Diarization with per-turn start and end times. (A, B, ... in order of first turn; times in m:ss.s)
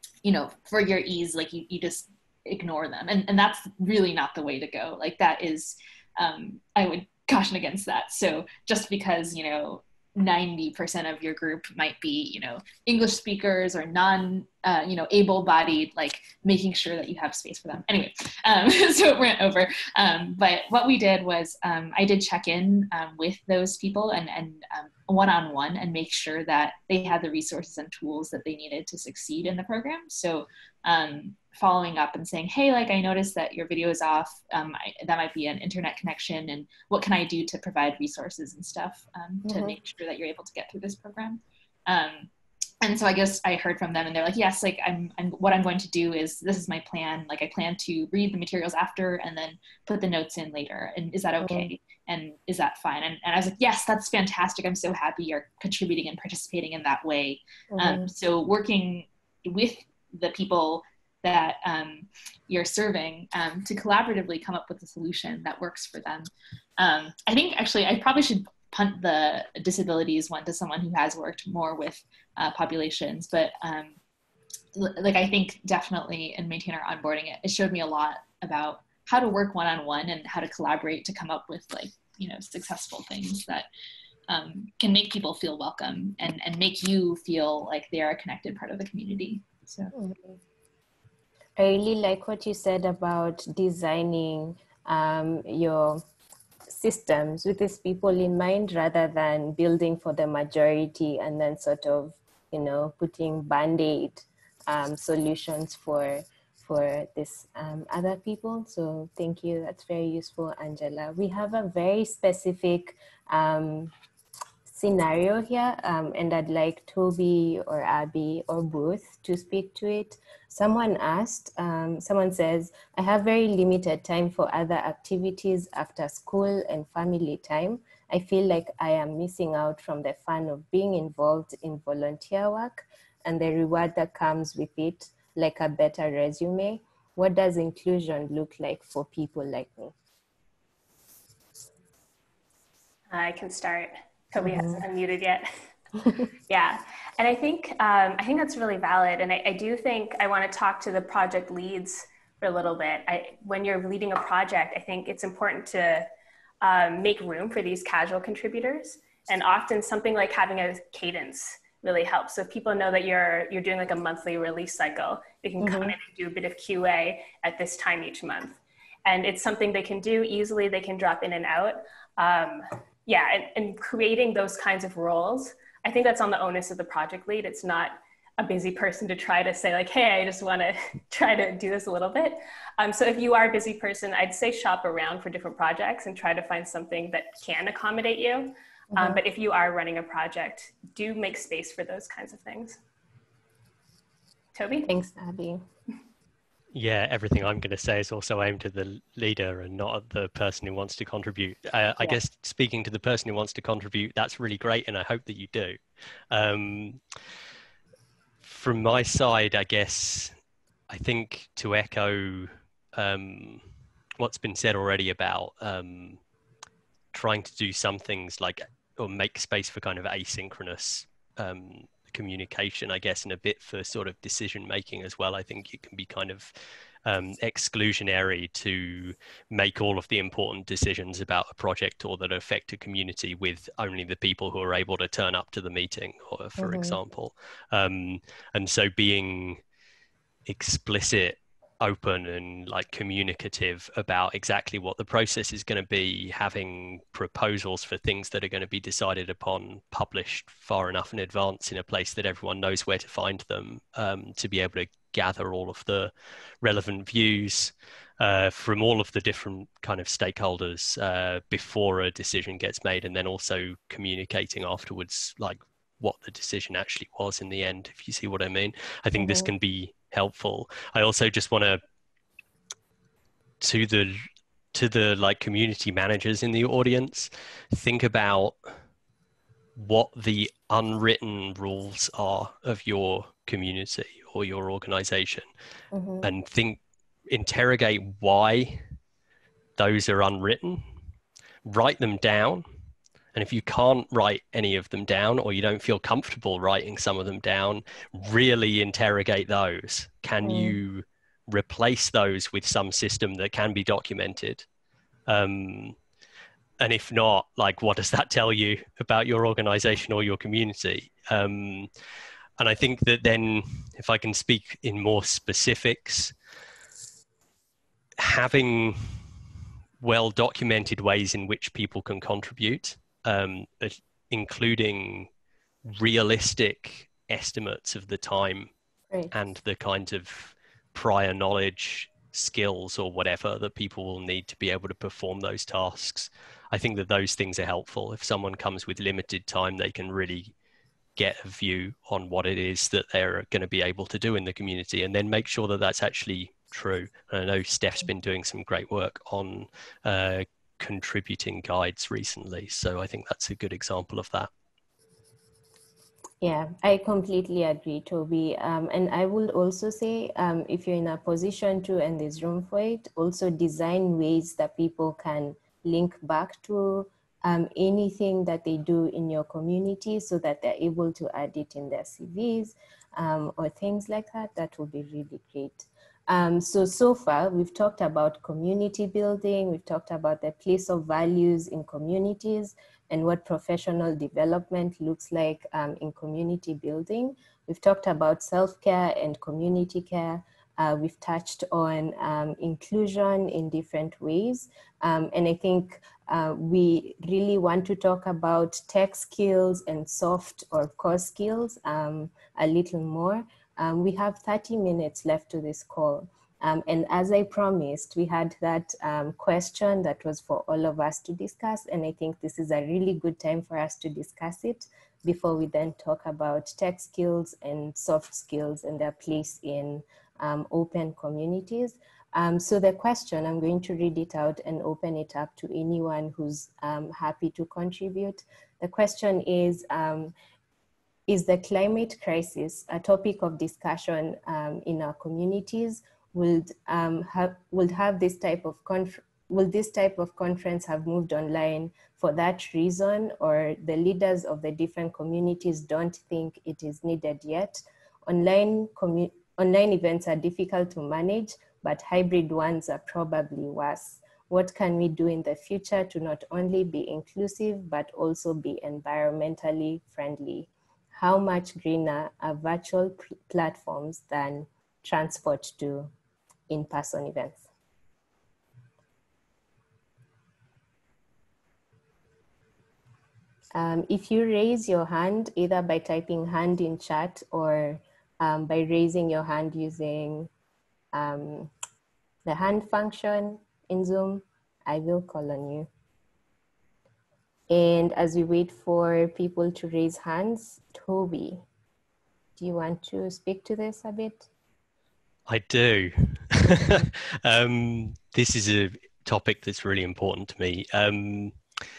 0:00.2-0:42.3 A
0:39.5-0:39.7 B
0:42.8-1:14.0 A
0:51.4-0:51.7 B
0:57.7-0:58.1 B
1:14.8-1:23.7 A
1:24.3-1:29.9 A
1:29.9-1:30.4 B
1:31.6-1:36.0 B
1:36.7-1:53.9 B
1:54.7-2:19.9 B
2:23.1-2:25.6 C
2:24.4-2:24.8 B
2:26.5-2:36.1 C
2:36.6-3:12.8 C
2:45.6-2:46.0 B
3:08.9-3:09.2 B
3:14.6-3:14.9 C
3:14.9-3:15.6 B
3:16.8-3:25.8 D
3:26.3-3:27.0 D
3:28.4-3:30.4 D
3:30.9-3:33.6 D
3:34.2-3:36.2 D
3:37.1-3:46.5 D
3:47.0-3:59.6 D
3:56.6-3:57.0 B
4:00.5-4:31.8 D
4:29.2-4:29.5 B
4:33.6-4:38.6 D
4:39.8-4:45.5 D
4:45.9-4:46.3 B
4:46.2-4:48.8 D
4:49.8-4:50.9 D
4:51.6-4:52.7 D
4:53.3-5:04.6 D
5:00.4-5:00.8 B
5:05.3-5:06.0 D
5:06.8-5:11.9 D
5:12.6-5:16.3 D
5:18.2-5:19.2 D
5:20.0-5:25.3 D
5:25.9-5:28.7 D
5:29.3-5:40.5 D
5:41.2-5:54.5 D
5:56.4-7:10.3 B
7:11.3-7:46.1 B
7:46.7-7:47.6 B
7:53.8-8:00.5 B
8:01.1-8:01.7 B
8:02.5-8:05.9 B
8:07.7-8:11.6 B
8:12.6-8:14.5 B
8:15.5-8:21.6 D